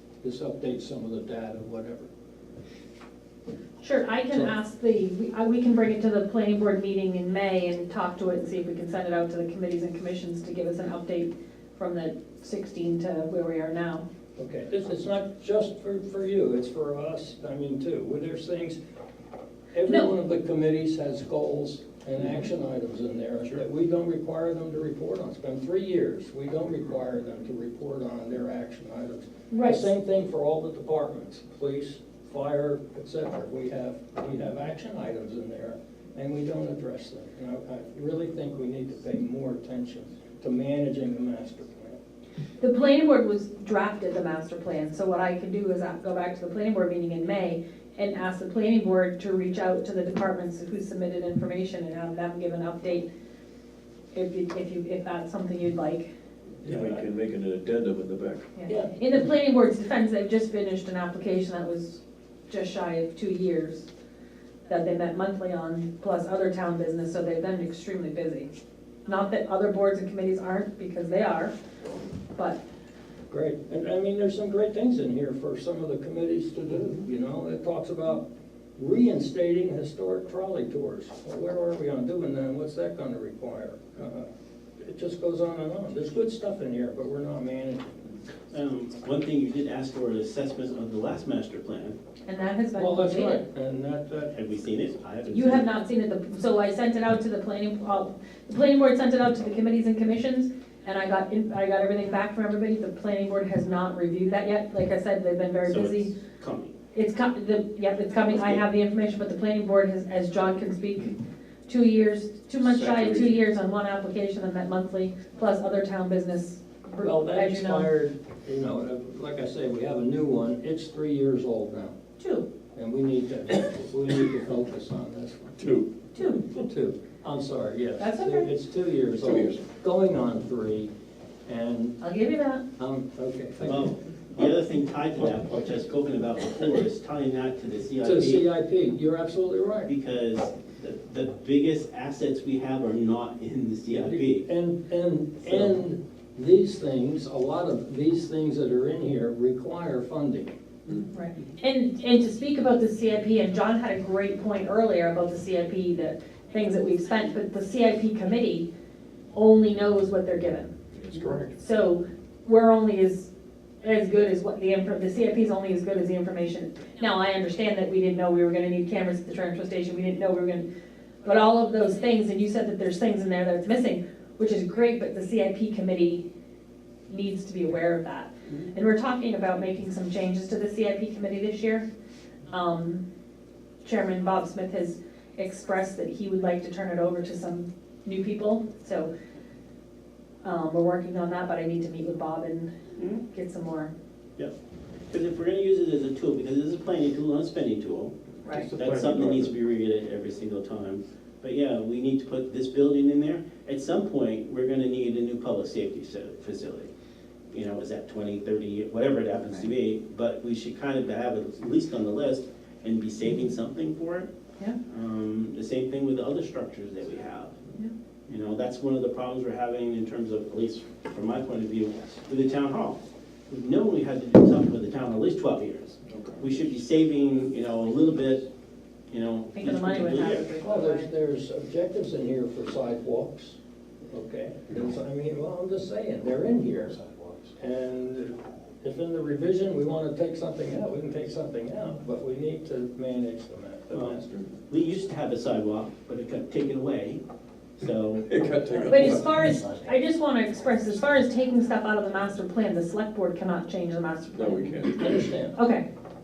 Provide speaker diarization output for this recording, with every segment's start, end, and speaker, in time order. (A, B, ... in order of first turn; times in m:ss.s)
0:00.2-0:02.1 A
0:03.8-0:14.0 B
0:14.4-0:18.8 A
0:19.7-0:42.0 A
0:19.9-0:20.1 B
0:29.5-0:29.9 B
0:42.6-0:53.1 B
0:54.1-0:56.1 B
0:56.6-0:57.0 A
0:56.6-0:58.5 C
0:58.6-1:03.9 B
0:58.7-0:58.9 A
1:04.7-1:08.5 B
1:09.1-1:11.5 B
1:13.3-1:28.1 A
1:28.5-1:32.0 D
1:32.3-1:33.4 B
1:32.8-1:34.4 A
1:34.3-1:35.7 D
1:35.3-1:46.1 B
1:45.6-1:46.7 D
1:46.9-1:57.9 B
1:52.6-1:53.4 C
1:57.0-2:02.0 A
2:02.2-2:02.5 B
2:02.8-2:05.6 A
2:05.6-2:05.9 C
2:06.2-2:06.4 B
2:06.6-2:10.9 A
2:08.0-2:08.5 B
2:09.2-2:09.6 C
2:11.5-2:12.0 A
2:12.0-2:12.6 B
2:12.8-2:14.0 A
2:13.7-2:18.5 D
2:18.0-2:19.9 A
2:19.9-2:24.4 D
2:23.9-2:30.5 A
2:25.4-2:25.8 D
2:31.1-2:38.7 B
2:39.3-2:40.7 B
2:41.0-2:41.5 C
2:41.5-2:43.3 B
2:43.8-2:50.7 B
2:51.2-2:56.2 B
2:57.1-3:01.9 B
3:02.5-3:03.0 B
3:03.8-3:09.1 B
3:10.4-3:12.7 B
3:13.0-3:13.2 D
3:13.3-3:13.9 B
3:15.1-3:26.9 D
3:18.4-3:18.7 B
3:18.5-3:19.5 C
3:27.5-3:34.3 D
3:34.9-3:37.6 D
3:38.3-3:48.5 D
3:46.1-3:46.4 C
3:49.1-3:50.5 D
3:49.5-3:51.1 B
3:50.6-3:53.6 A
3:54.1-3:57.0 A
3:57.6-4:04.5 A
4:04.7-4:07.2 D
4:07.8-4:08.3 D
4:08.3-4:09.6 C
4:08.9-4:15.0 B
4:14.3-4:15.2 C
4:15.0-4:15.6 A
4:15.5-4:15.9 B